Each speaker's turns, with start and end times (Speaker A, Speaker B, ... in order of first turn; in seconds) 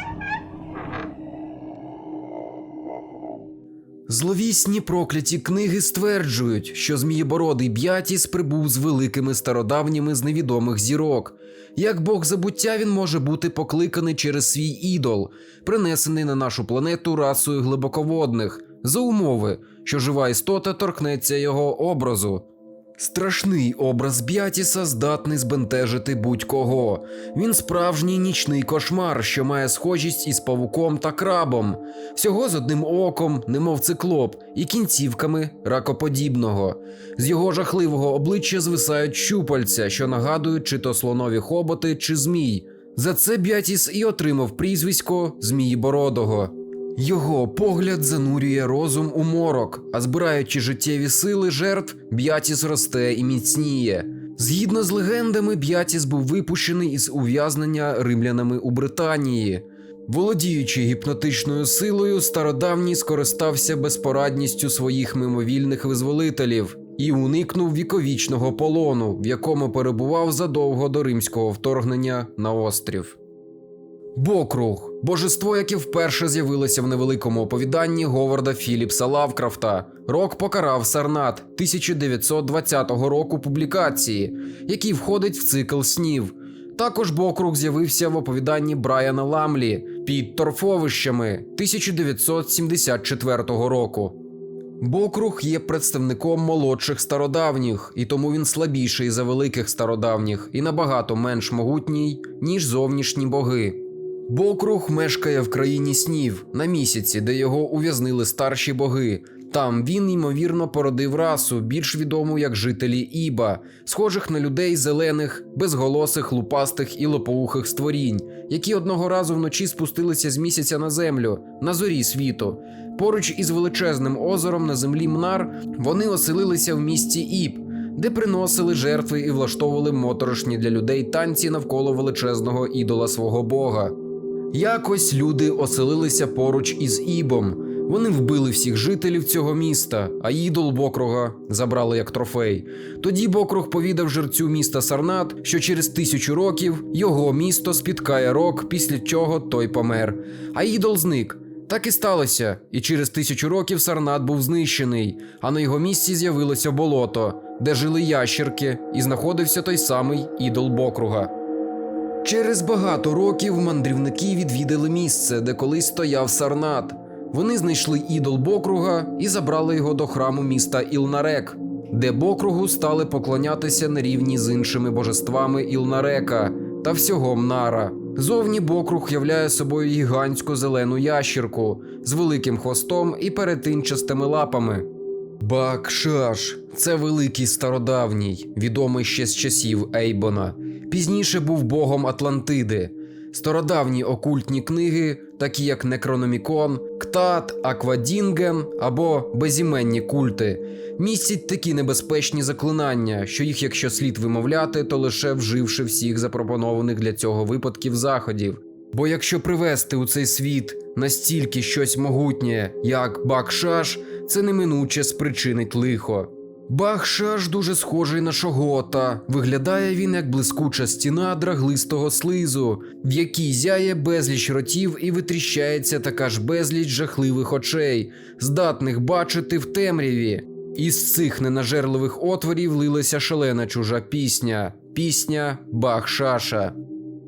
Speaker A: 4.1-22.4, 23.0-73.2, 74.1-94.2, 94.8-133.9, 134.5-161.3, 162.2-184.9, 185.4-236.8